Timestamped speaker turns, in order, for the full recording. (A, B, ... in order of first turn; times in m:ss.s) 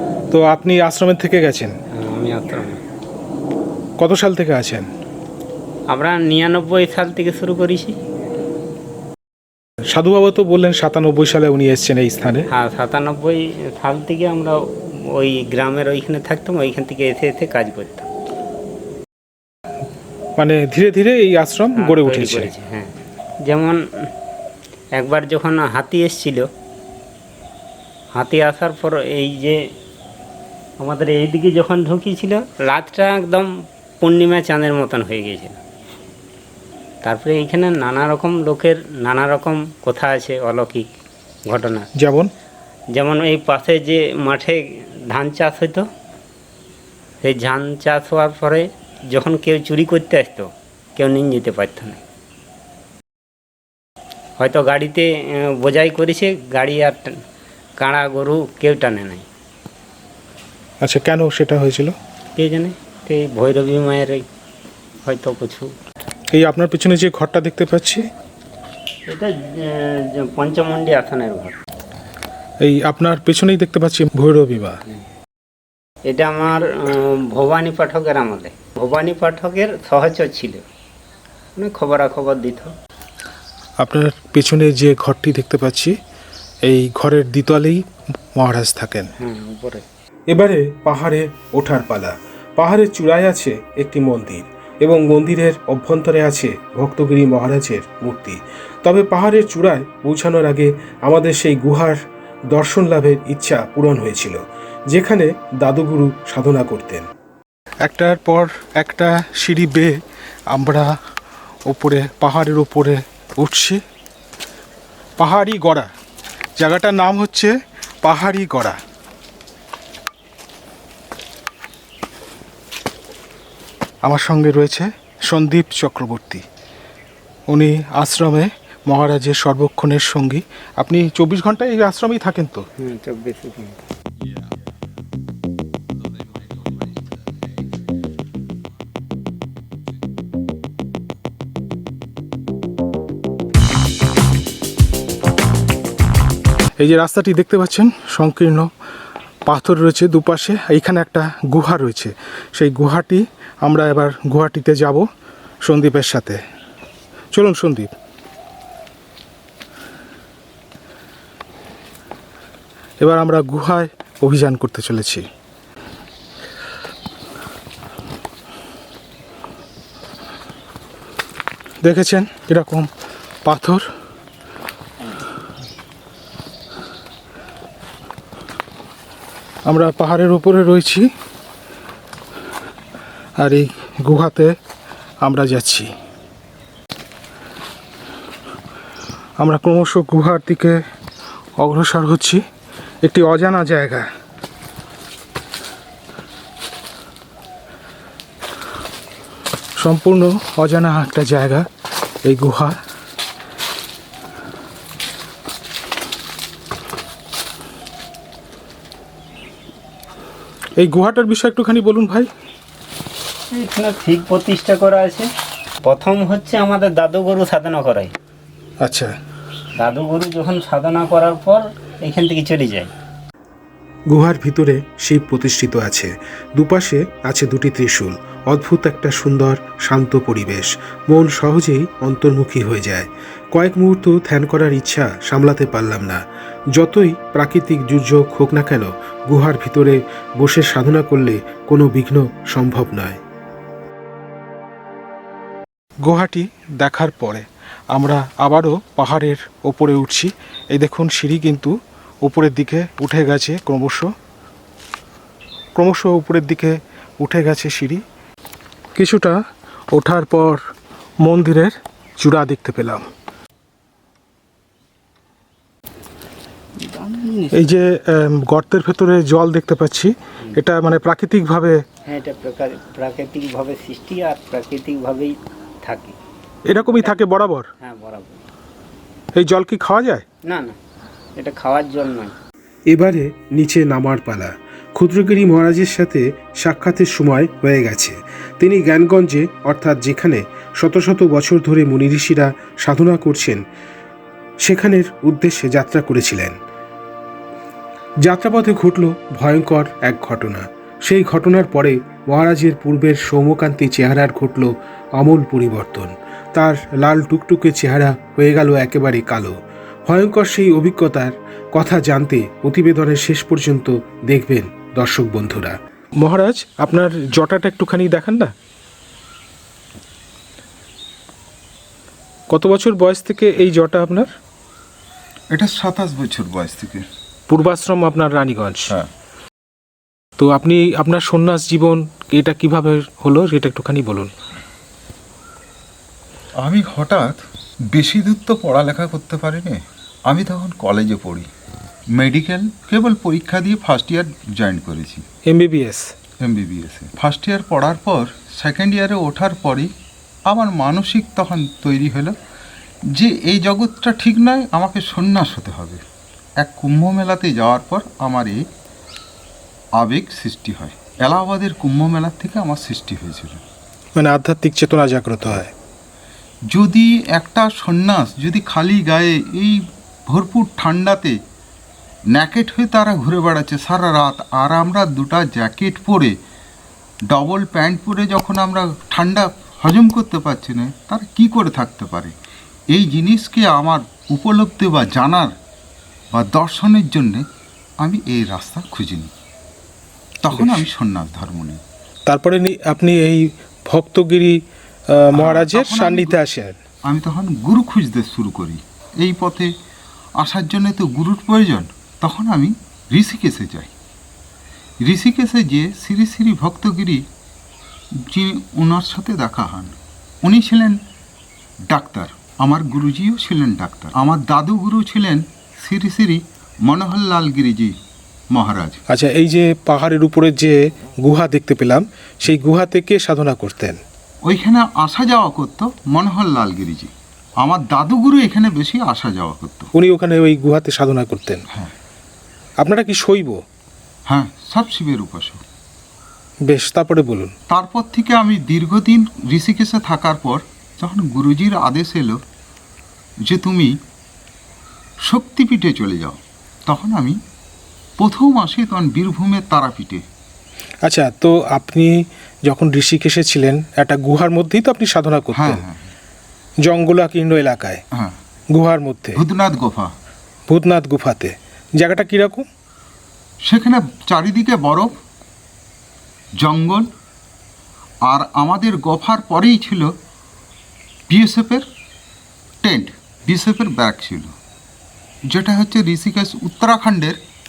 0:00.3-0:01.7 A
0:01.9-0:02.8 B
0:04.0-0:04.9 A
0:05.9-0:08.0 B
0:09.9-0:12.5 A
0:12.5-0:18.1 B
0:20.4-0:22.5 A
0:21.8-0:24.1 B
0:25.0-0:26.5 B
0:28.2-0:29.7 B
0:30.8-0:35.6 B
0:37.0-0:40.9 B
0:41.5-0:41.9 B
0:42.0-0:42.3 A
0:42.9-0:45.9 B
0:47.2-0:52.0 B
0:54.4-0:57.2 B
0:57.8-0:59.3 B
1:00.8-1:01.9 A
1:02.4-1:04.2 B
1:05.0-1:05.7 B
1:06.3-1:08.0 A
1:09.1-1:11.6 B
1:12.6-1:14.8 A
1:16.1-1:20.6 B
1:21.6-1:22.7 B
1:23.8-1:25.9 A
1:26.7-1:29.1 A
1:29.2-1:29.8 B
1:30.3-1:42.0 A
1:42.5-1:47.1 A
1:47.8-1:50.0 A
1:50.5-1:51.0 A
1:51.7-1:53.8 A
1:55.2-1:55.9 A
1:56.6-1:58.8 A
2:04.0-2:06.4 A
2:07.5-2:12.7 A
2:12.8-2:13.8 B
2:26.8-2:28.7 A
2:29.5-2:35.1 A
2:35.6-2:36.4 A
2:37.3-2:37.9 A
2:43.0-2:45.3 A
2:51.8-2:52.9 A
2:53.4-2:53.8 A
2:59.7-3:01.1 A
3:03.4-3:04.6 A
3:05.2-3:05.9 A
3:09.4-3:10.8 A
3:11.6-3:12.4 A
3:13.0-3:14.1 A
3:19.8-3:21.7 A
3:22.3-3:22.8 A
3:30.8-3:32.3 A
3:33.5-3:35.3 B
3:35.8-3:38.1 B
3:38.8-3:39.1 A
3:39.8-3:42.9 B
3:44.1-3:56.2 A
3:56.7-4:03.2 A
4:06.0-4:14.1 A
4:15.8-4:18.0 A
4:19.0-4:19.4 A
4:19.9-4:20.6 A
4:21.2-4:23.0 A
4:26.8-4:27.5 B
4:27.5-4:31.8 A
4:32.1-4:36.2 B
4:36.7-4:37.7 A
4:36.8-4:37.2 B
4:37.8-4:38.4 B
4:39.4-4:40.2 A
4:40.5-4:40.8 B
4:41.4-4:42.4 B
4:42.9-4:53.6 A
4:54.6-4:56.6 A
4:58.2-5:18.5 A
5:22.5-5:24.3 A
5:25.5-5:27.0 C
5:27.5-5:28.9 A
5:30.4-5:34.3 A
5:36.6-5:41.5 C
5:42.1-5:45.2 C
5:45.5-5:46.1 A
5:46.4-5:49.9 C
5:50.5-5:52.4 C
5:53.1-5:56.0 C
5:56.6-5:58.6 C
6:00.0-6:03.6 C
6:04.2-6:05.7 A
6:06.7-6:11.4 C
6:12.3-6:16.3 C
6:17.3-6:22.3 C
6:22.9-6:25.5 C
6:26.3-6:27.4 C
6:28.0-6:29.3 C
6:30.4-6:31.8 C
6:30.5-6:30.9 A
6:32.3-6:36.8 A
6:35.4-6:36.4 C
6:37.1-6:39.7 C
6:40.4-6:43.9 C
6:45.0-6:47.2 C
6:48.2-6:51.0 C
6:51.9-6:58.0 C
6:58.5-6:59.0 C
6:59.1-7:04.0 A
7:04.5-7:09.9 C
7:09.9-7:11.6 A
7:12.8-7:13.6 A
7:14.3-7:15.6 C
7:16.7-7:17.5 A
7:17.7-7:22.4 C
7:23.4-7:24.0 C
7:25.2-7:27.4 C
7:28.2-7:30.2 C
7:31.0-7:35.8 A
7:35.5-7:36.1 C
7:36.8-7:38.0 A
7:38.7-7:39.4 A
7:39.4-7:40.1 C
7:40.7-7:42.7 A
7:43.6-7:45.1 C
7:46.6-7:47.1 C
7:48.2-7:50.1 C
7:51.3-7:51.9 C
7:52.8-7:54.5 C
7:55.5-7:57.4 C